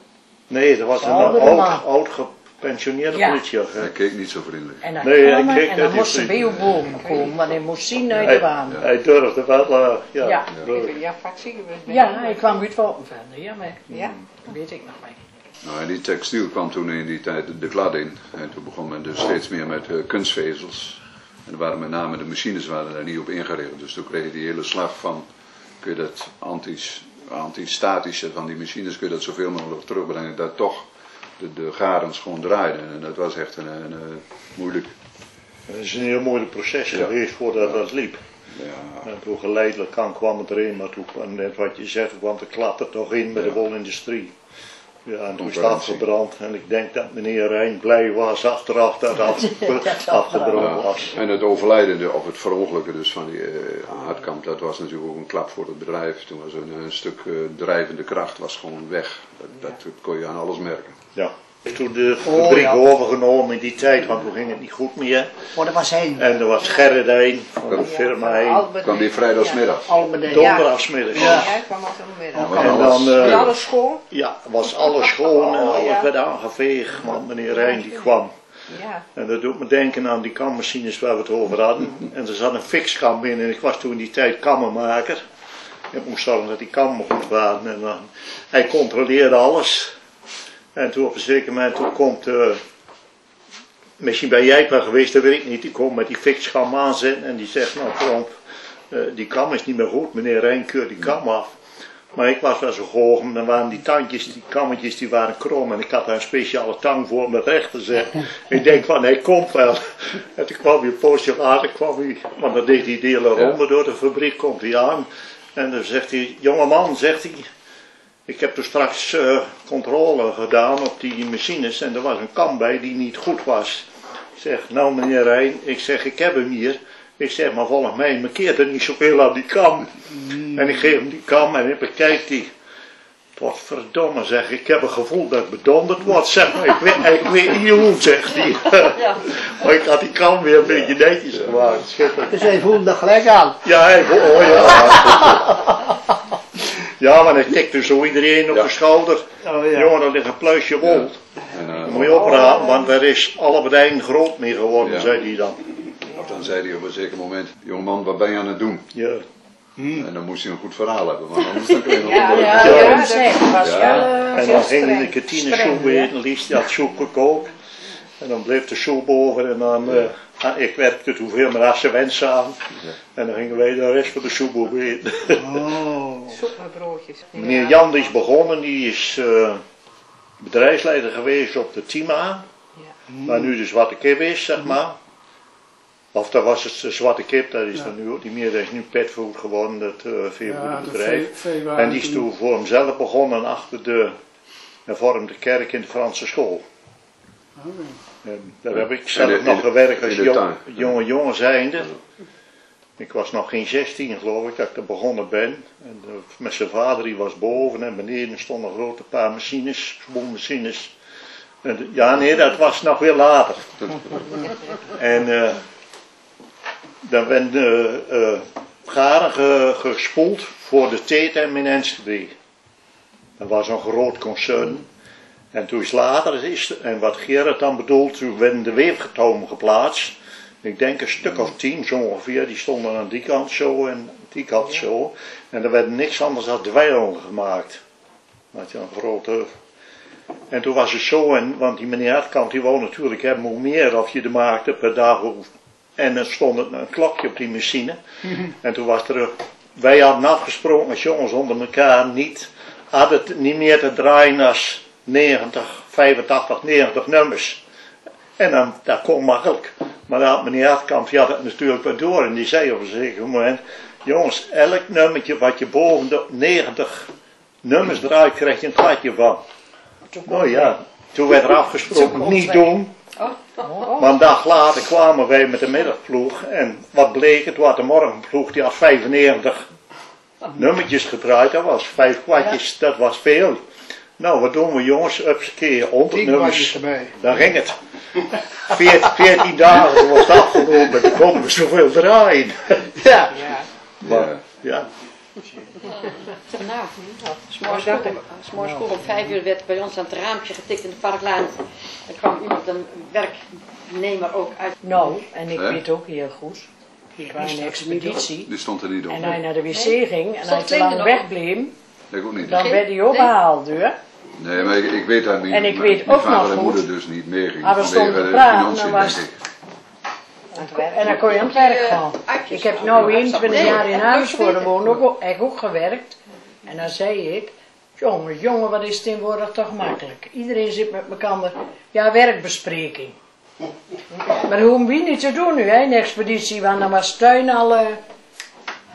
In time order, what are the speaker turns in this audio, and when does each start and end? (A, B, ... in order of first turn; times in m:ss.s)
0:00.5-0:03.9 A
0:01.0-0:01.8 B
0:03.1-0:03.4 B
0:03.8-0:04.8 C
0:04.8-0:08.8 B
0:05.0-0:06.4 A
0:07.0-0:07.3 D
0:08.2-0:10.9 A
0:10.2-0:10.5 B
0:10.6-0:12.5 D
0:11.9-0:13.8 B
0:13.9-0:14.1 D
0:14.4-0:15.2 B
0:15.6-0:25.3 C
0:25.8-0:34.9 C
0:35.7-0:38.2 A
0:38.5-0:39.1 C
0:39.0-0:44.3 A
0:45.0-0:51.2 A
0:45.4-0:46.1 C
0:49.4-0:50.7 B
0:50.5-1:01.0 C
1:01.1-1:05.4 A
1:02.2-1:02.8 E
1:05.5-1:06.4 E
1:06.2-1:08.7 A
1:07.7-1:14.0 D
1:08.7-1:09.9 C
1:09.8-1:10.6 E
1:10.3-1:11.5 A
1:11.2-1:11.5 E
1:12.4-1:13.6 C
1:12.6-1:13.5 A
1:14.1-1:18.3 A
1:15.0-1:16.1 D
1:17.6-1:18.1 D
1:18.7-1:19.0 D
1:19.2-1:25.2 A
1:25.9-1:30.0 A
1:30.7-1:32.6 A
1:34.0-1:38.3 A
1:38.9-1:41.6 A
1:42.1-1:57.5 A
1:58.3-2:12.5 A
2:13.4-2:22.5 A
2:22.3-2:23.6 E
2:23.6-2:25.4 A
2:24.9-2:25.5 E
2:27.0-2:31.2 A
2:29.4-2:30.0 E
2:30.8-2:32.3 C
2:31.8-2:35.6 A
2:34.8-2:35.1 C
2:36.1-2:38.8 C
2:38.9-2:39.2 A
2:39.8-2:40.0 E
2:39.9-2:42.9 C
2:41.8-2:46.1 B
2:42.0-2:45.0 D
2:42.5-2:43.2 A
2:43.6-2:44.1 C
2:43.9-2:47.5 A
2:48.2-2:55.7 A
2:55.4-2:56.4 E
2:56.3-2:58.1 D
2:57.3-2:59.6 A
3:00.4-3:02.4 A
3:03.2-3:05.0 A
3:06.1-3:14.2 A
3:10.4-3:12.2 E
3:14.9-3:16.6 A
3:17.6-3:18.0 E
3:18.2-3:21.9 A
3:18.7-3:21.0 C
3:23.0-3:30.9 A
3:31.6-3:33.9 A
3:34.9-3:35.6 A
3:37.0-3:42.3 A
3:43.4-3:44.8 A
3:45.5-3:57.8 A
3:58.5-3:59.5 A
4:00.5-4:17.6 A
4:18.4-4:27.1 A
4:27.6-4:29.4 A
4:30.1-4:30.8 B
4:30.2-4:32.9 A
4:31.9-4:32.8 B
4:33.2-4:33.8 F
4:33.6-4:34.3 B
4:34.0-4:39.6 A
4:40.5-4:43.6 A
4:44.2-4:47.8 A
4:46.1-4:47.1 E
4:48.7-4:52.9 A
4:53.3-4:53.6 D
4:54.0-4:54.4 C
4:54.0-4:54.9 A
4:56.5-5:05.2 F
4:57.0-4:58.2 D
5:04.8-5:06.7 B
5:05.5-5:05.8 C
5:07.2-5:07.6 E
5:07.3-5:08.5 B
5:08.4-5:09.4 C
5:09.1-5:11.7 B
5:09.7-5:11.3 F
5:12.1-5:12.6 C
5:12.4-5:14.0 B
5:12.5-5:13.4 F
5:14.4-5:19.3 C
5:15.5-5:16.9 B
5:17.6-5:19.3 B
5:20.5-5:21.0 D
5:20.5-5:33.2 B
5:21.1-5:24.9 F
5:23.0-5:23.8 C
5:34.3-5:38.0 B